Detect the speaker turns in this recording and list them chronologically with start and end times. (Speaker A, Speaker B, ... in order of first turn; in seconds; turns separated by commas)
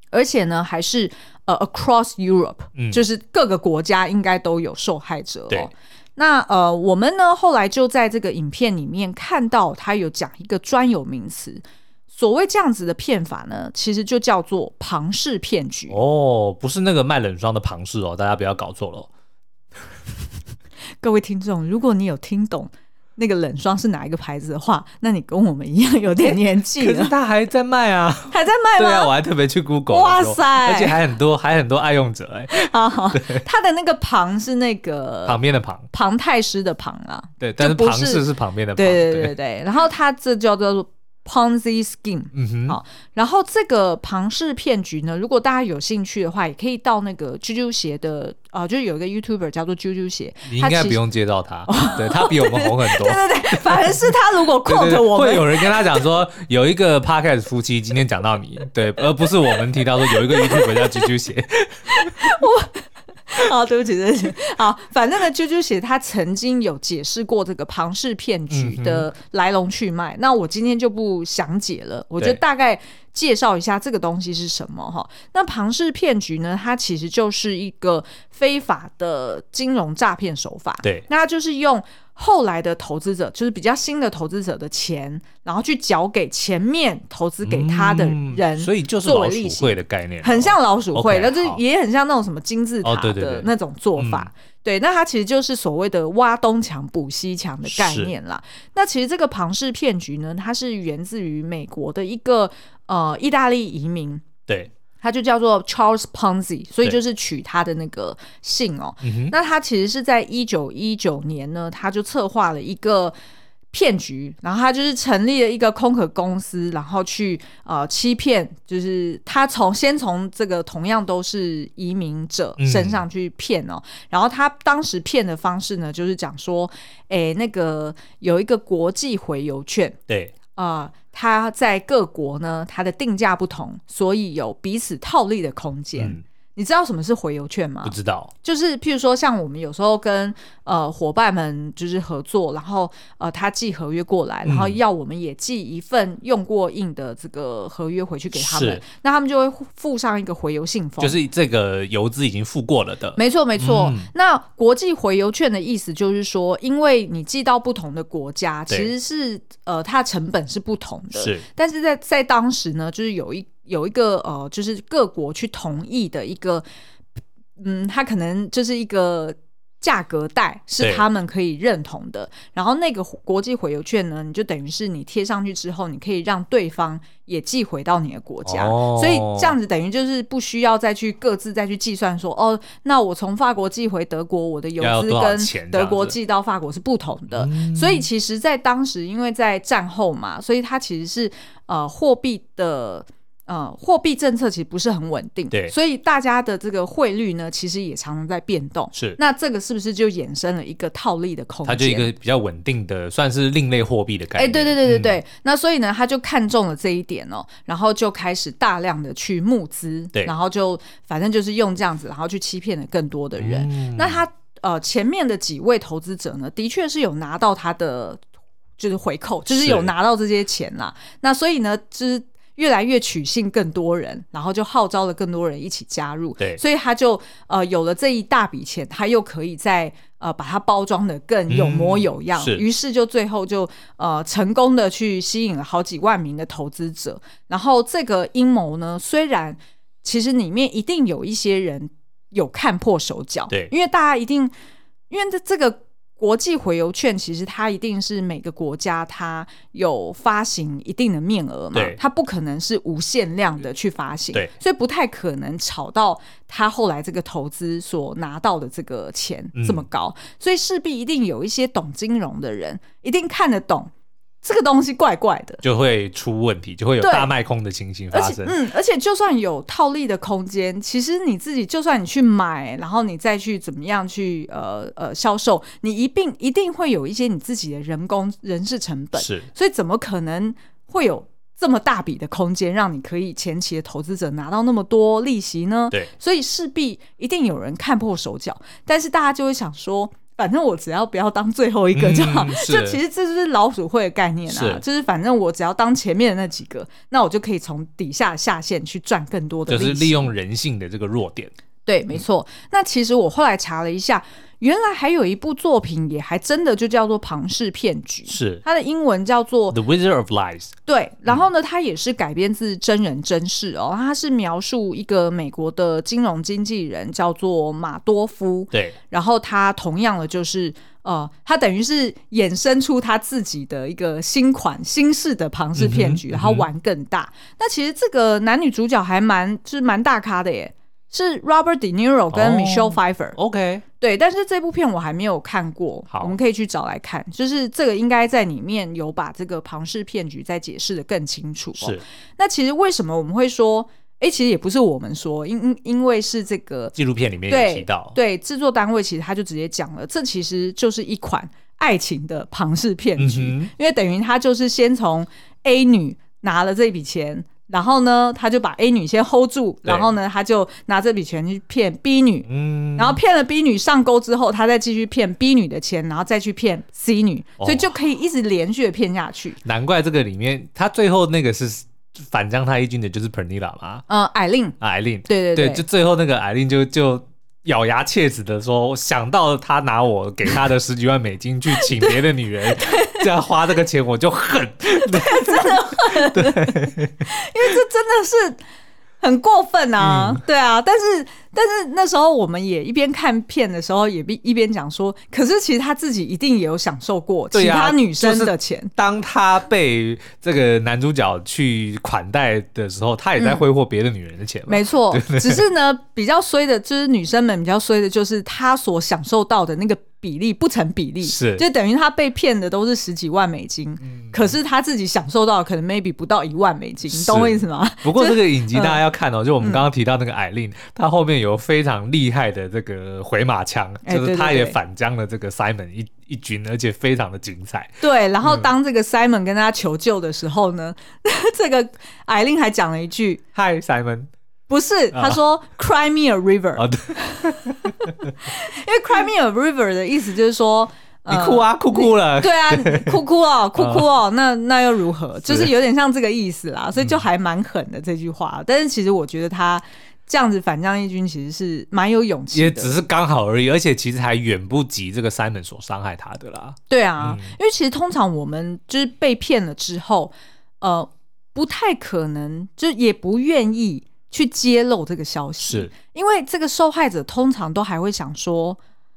Speaker A: 0.1-16.0, Speaker B: 2.8-3.0, Speaker B: 15.9-19.1, Speaker A: 21.0-27.1, Speaker B: 26.2-33.4, Speaker A: 28.3-29.1, Speaker A: 29.9-31.0, Speaker A: 32.5-35.4, Speaker B: 35.2-35.9, Speaker A: 35.9-38.2, Speaker B: 37.4-39.3, Speaker A: 38.8-51.0, Speaker B: 42.3-42.8, Speaker B: 50.5-53.8, Speaker A: 51.7-56.0, Speaker B: 54.6-62.3, Speaker A: 60.1-61.1, Speaker A: 61.9-104.3, Speaker B: 68.5-69.1, Speaker B: 87.4-91.6, Speaker B: 92.8-94.3, Speaker B: 97.7-98.1, Speaker A: 105.0-113.1, Speaker B: 109.0-109.3, Speaker A: 113.7-130.0, Speaker B: 122.6-123.0, Speaker B: 130.1-130.3, Speaker A: 130.5-151.2, Speaker B: 136.0-136.2, Speaker B: 137.8-138.3, Speaker B: 144.4-144.8, Speaker B: 148.3-148.8, Speaker B: 151.0-154.1, Speaker A: 153.2-166.6, Speaker B: 161.1-161.4, Speaker A: 167.6-202.1, Speaker B: 178.4-179.6, Speaker B: 184.8-186.1, Speaker B: 187.3-188.1, Speaker B: 201.6-205.2, Speaker A: 204.3-218.2, Speaker B: 213.4-214.2, Speaker A: 218.8-244.5, Speaker B: 219.5-219.9, Speaker B: 231.5-232.6, Speaker A: 245.1-263.9, Speaker B: 251.7-252.0, Speaker B: 259.5-259.8, Speaker A: 264.4-265.6, Speaker B: 265.6-268.5, Speaker A: 267.0-267.3, Speaker A: 268.1-300.3, Speaker B: 279.2-279.5, Speaker B: 291.9-293.0, Speaker B: 294.5-294.8, Speaker B: 299.7-301.5, Speaker A: 301.9-309.8, Speaker B: 308.3-308.6, Speaker B: 309.7-310.7, Speaker A: 310.9-333.4, Speaker B: 325.8-326.7, Speaker B: 332.3-333.8, Speaker A: 334.0-346.9, Speaker B: 341.8-342.0, Speaker B: 346.9-348.1, Speaker A: 347.5-369.6, Speaker B: 353.2-353.7, Speaker B: 362.4-363.2, Speaker B: 367.6-367.9, Speaker B: 369.6-374.0, Speaker A: 374.1-374.8, Speaker B: 374.8-387.3, Speaker A: 375.3-375.8, Speaker A: 381.7-383.3, Speaker A: 385.0-388.6, Speaker A: 389.2-398.9, Speaker B: 390.0-390.4, Speaker B: 397.5-405.6, Speaker A: 403.4-403.6, Speaker A: 404.7-419.0, Speaker B: 411.2-411.6, Speaker B: 414.0-414.5, Speaker B: 417.1-428.7, Speaker A: 424.0-424.8, Speaker A: 428.0-433.4, Speaker B: 433.5-434.3, Speaker A: 434.7-452.9, Speaker B: 435.1-435.4, Speaker B: 436.8-438.3, Speaker B: 441.3-443.2, Speaker B: 443.8-444.1, Speaker B: 445.4-445.7, Speaker B: 452.5-457.5, Speaker A: 456.9-468.8, Speaker B: 465.6-465.9